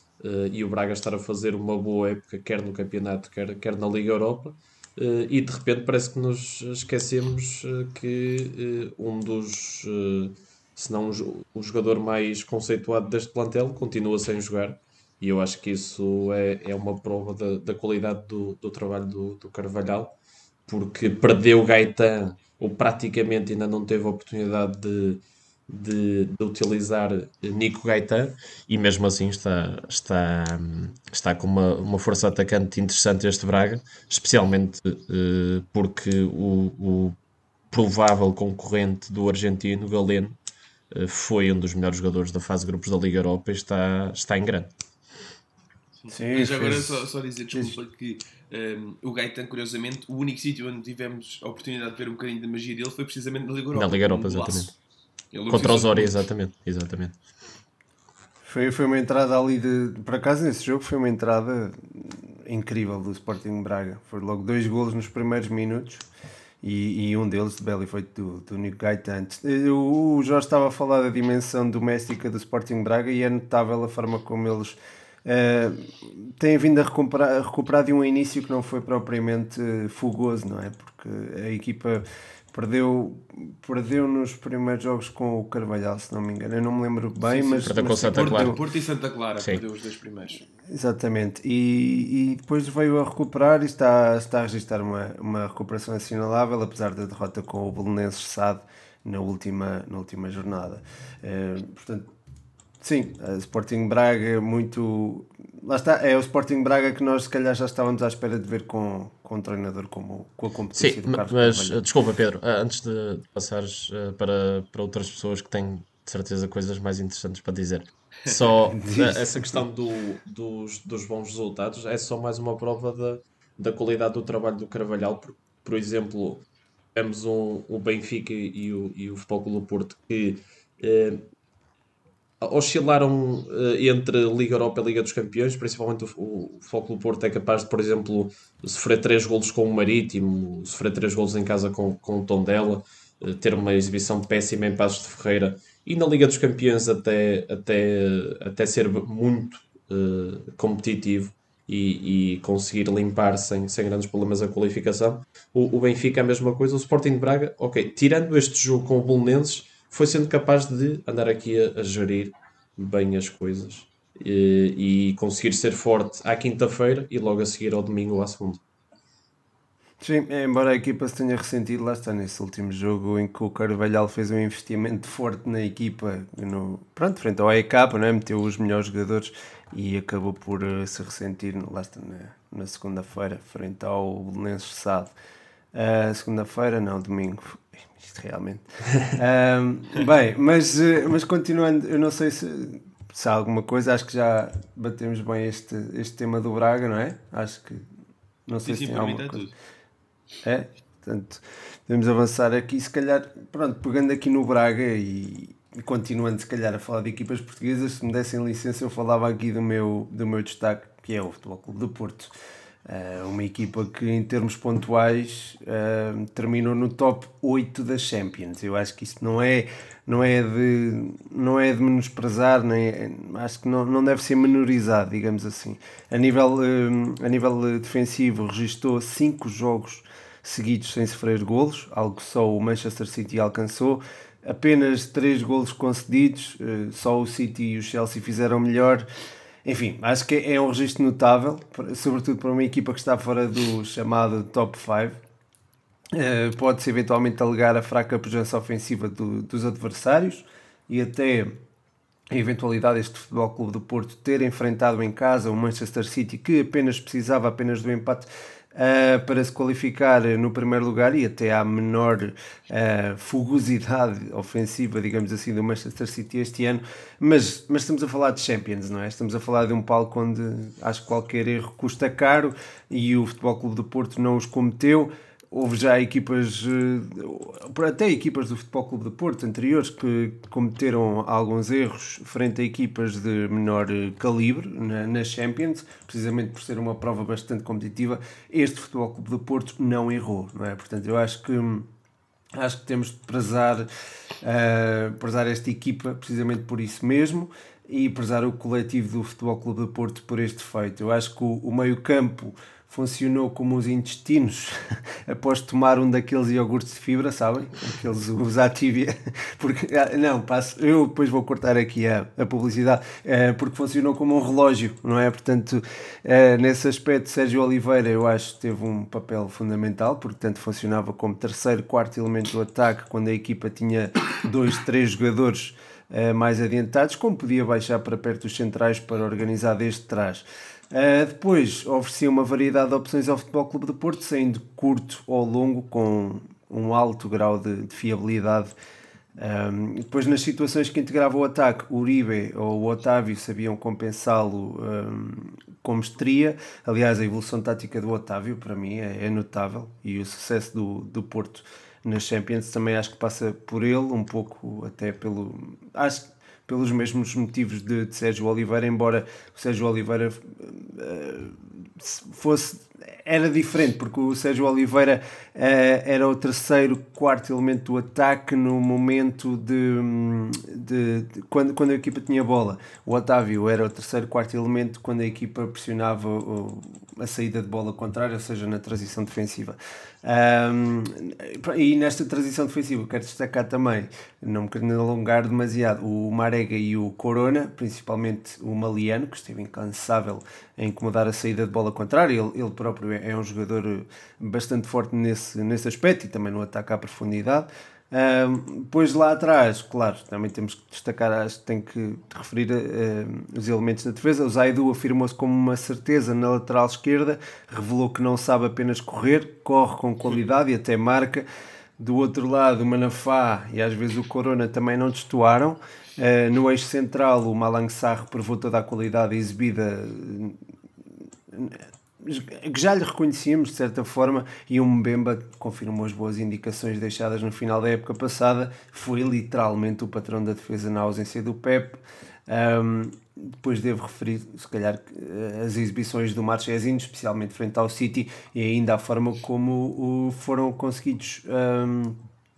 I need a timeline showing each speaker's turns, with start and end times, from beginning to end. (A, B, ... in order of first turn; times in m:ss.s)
0:00.2-0:20.2 A
0:20.7-0:37.2 A
0:37.7-0:40.4 A
0:40.9-0:44.7 A
0:46.0-0:54.7 B
0:46.1-0:47.8 C
0:53.7-0:54.7 A
0:55.3-0:56.2 B
0:55.5-0:57.2 A
0:58.4-1:06.0 C
1:06.6-1:28.6 C
1:27.3-1:30.4 B
1:27.7-1:28.6 A
1:29.4-1:29.6 A
1:30.6-1:42.1 C
1:42.8-1:51.8 C
1:50.7-2:11.3 A
1:58.7-1:59.6 C
2:12.4-2:48.6 A
2:50.0-3:05.1 C
3:05.7-3:17.9 C
3:18.5-3:19.5 C
3:18.6-3:19.5 B
3:20.4-3:32.3 C
3:32.9-3:59.1 C
3:59.6-4:05.2 C
4:06.1-4:11.6 C
4:12.3-4:51.9 C
4:52.6-4:53.9 C
4:54.4-5:38.7 C
5:39.4-6:51.5 C
6:52.0-7:00.6 C
7:01.5-7:22.2 C